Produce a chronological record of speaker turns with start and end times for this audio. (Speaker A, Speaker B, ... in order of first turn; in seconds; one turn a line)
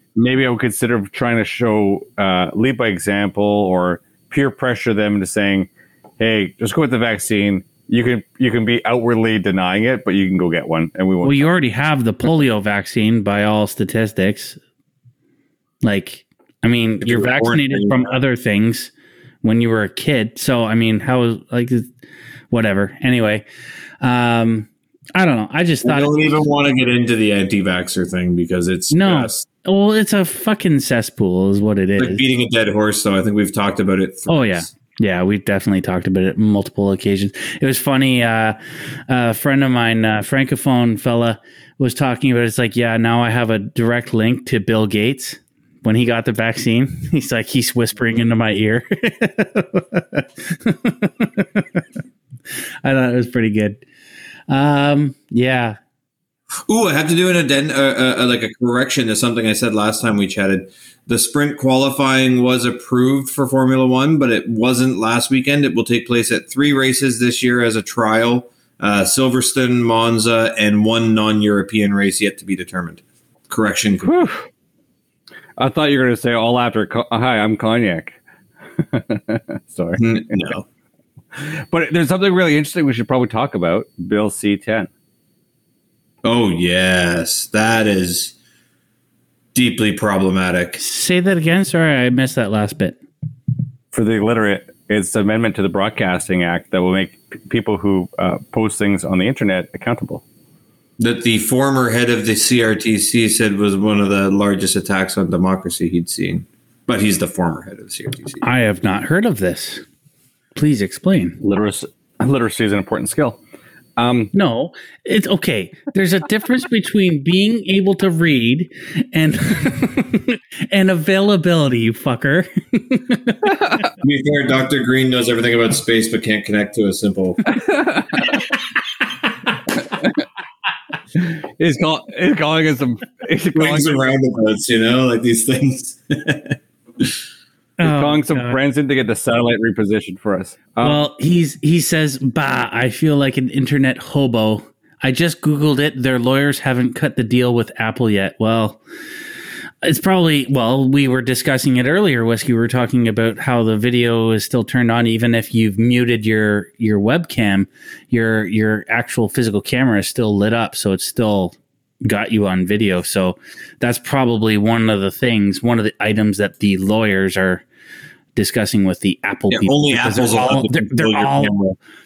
Speaker A: 0.1-11.5
Speaker B: 11.2-14.6
Speaker B: 15.8-18.9
Speaker C: 17.0-18.1
Speaker B: 19.4-21.9
Speaker B: 22.5-23.4
Speaker B: 24.0-26.3
Speaker C: 25.8-29.4
Speaker B: 28.9-32.2
Speaker C: 32.0-34.7
Speaker B: 34.3-51.8
Speaker B: 52.8-53.8
Speaker B: 54.5-55.8
Speaker C: 56.7-74.2
Speaker A: 74.0-74.5
Speaker A: 75.6-78.2
Speaker A: 78.8-80.4
Speaker C: 80.0-80.6
Speaker A: 81.3-84.9
Speaker C: 86.2-88.3
Speaker C: 89.5-90.8
Speaker B: 90.8-93.0
Speaker A: 93.9-100.2
Speaker C: 101.0-108.4
Speaker B: 108.4-109.8
Speaker B: 110.5-111.4
Speaker A: 111.4-113.4
Speaker A: 114.0-114.3
Speaker B: 114.3-123.5
Speaker C: 124.0-127.5
Speaker A: 127.6-128.2
Speaker A: 131.2-133.9
Speaker C: 133.6-137.1
Speaker B: 137.8-138.6
Speaker A: 137.8-141.0
Speaker B: 140.8-148.8
Speaker B: 149.8-167.6
Speaker B: 168.3-171.6
Speaker C: 169.5-171.8